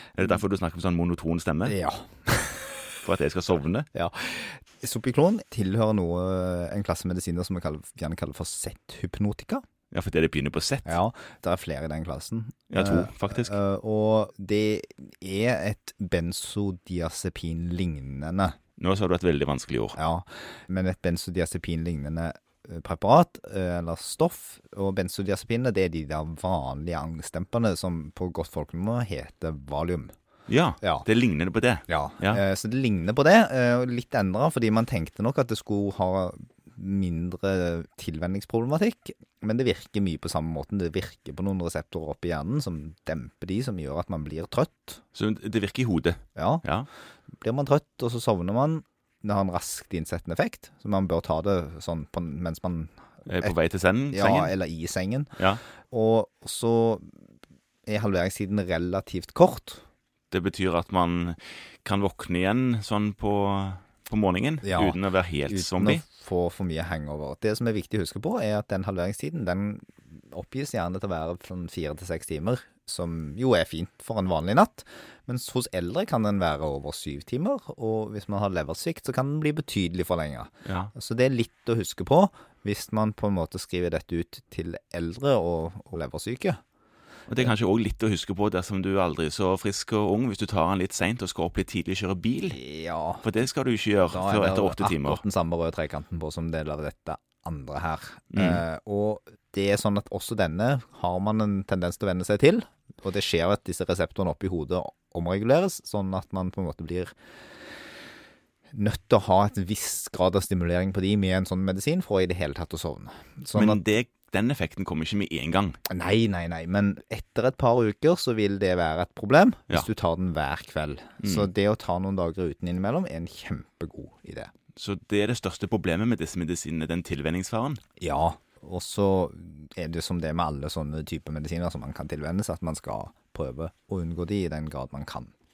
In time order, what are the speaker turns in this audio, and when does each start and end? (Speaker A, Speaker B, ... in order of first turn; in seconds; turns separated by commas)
Speaker A: 0.2-1.8, Speaker B: 1.6-2.8, Speaker A: 3.0-3.9, Speaker B: 3.9-9.6, Speaker A: 9.9-10.9, Speaker B: 10.8-18.6, Speaker A: 12.7-13.5, Speaker A: 18.8-19.9, Speaker B: 19.9-30.1, Speaker A: 30.5-32.4, Speaker B: 30.8-31.1, Speaker B: 31.9-45.0, Speaker A: 45.1-46.9, Speaker B: 46.3-46.6, Speaker B: 47.4-53.5, Speaker A: 53.3-54.5, Speaker B: 54.1-57.1, Speaker B: 57.9-59.8, Speaker A: 60.3-66.0, Speaker B: 64.6-86.6, Speaker A: 80.7-80.9, Speaker A: 87.3-92.6, Speaker B: 92.5-93.2, Speaker A: 93.2-95.2, Speaker B: 94.1-107.1, Speaker A: 98.3-98.6, Speaker B: 108.7-113.8, Speaker A: 113.5-115.8, Speaker B: 115.9-124.5, Speaker A: 121.2-121.5, Speaker A: 124.8-127.8, Speaker B: 128.0-135.3